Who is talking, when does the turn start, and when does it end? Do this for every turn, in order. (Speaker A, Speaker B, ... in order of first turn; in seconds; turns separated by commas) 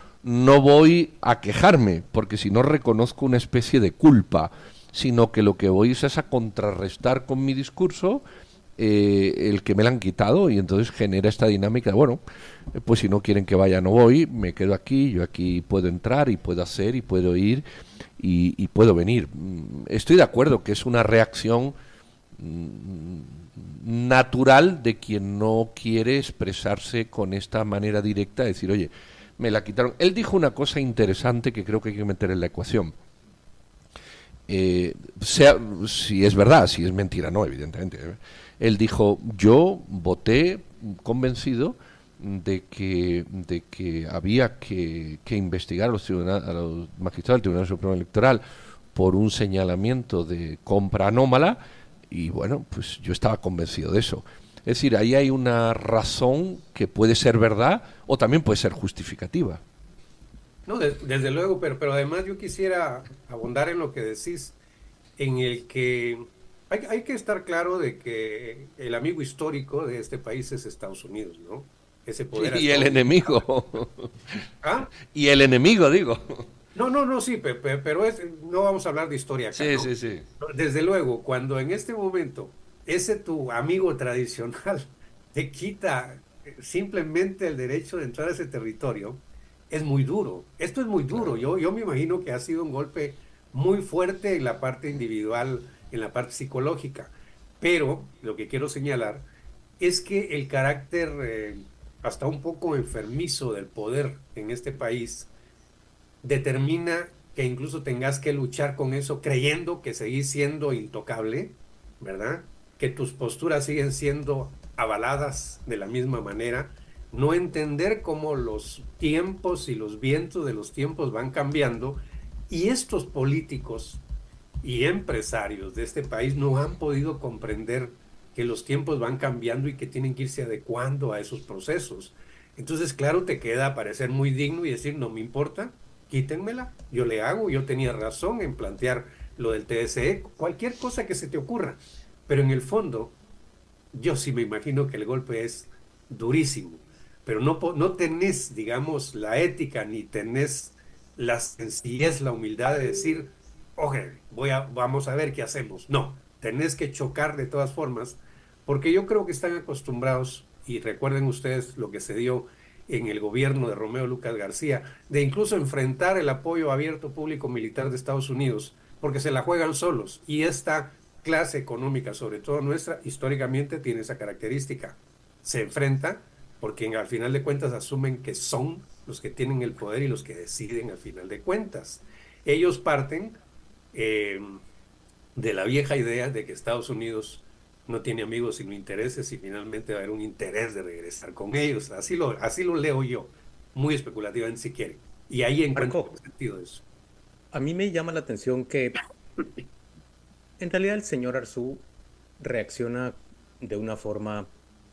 Speaker A: 0.2-8.2, Speaker A: 8.8-12.2, Speaker A: 12.8-17.6, Speaker A: 18.2-21.7, Speaker A: 22.4-32.9, Speaker A: 34.5-48.4, Speaker A: 49.0-59.6, Speaker B: 60.7-64.6, Speaker B: 65.2-73.4, Speaker A: 72.3-74.4, Speaker B: 74.6-74.9, Speaker A: 75.1-76.4, Speaker B: 76.8-99.2, Speaker A: 79.5-80.2, Speaker B: 99.8-105.3, Speaker B: 106.2-124.0, Speaker B: 124.6-143.2, Speaker B: 143.9-183.4, Speaker B: 183.9-184.6, Speaker B: 185.4-196.8, Speaker C: 195.8-196.1, Speaker C: 197.5-199.0, Speaker C: 200.6-201.8, Speaker C: 202.4-204.5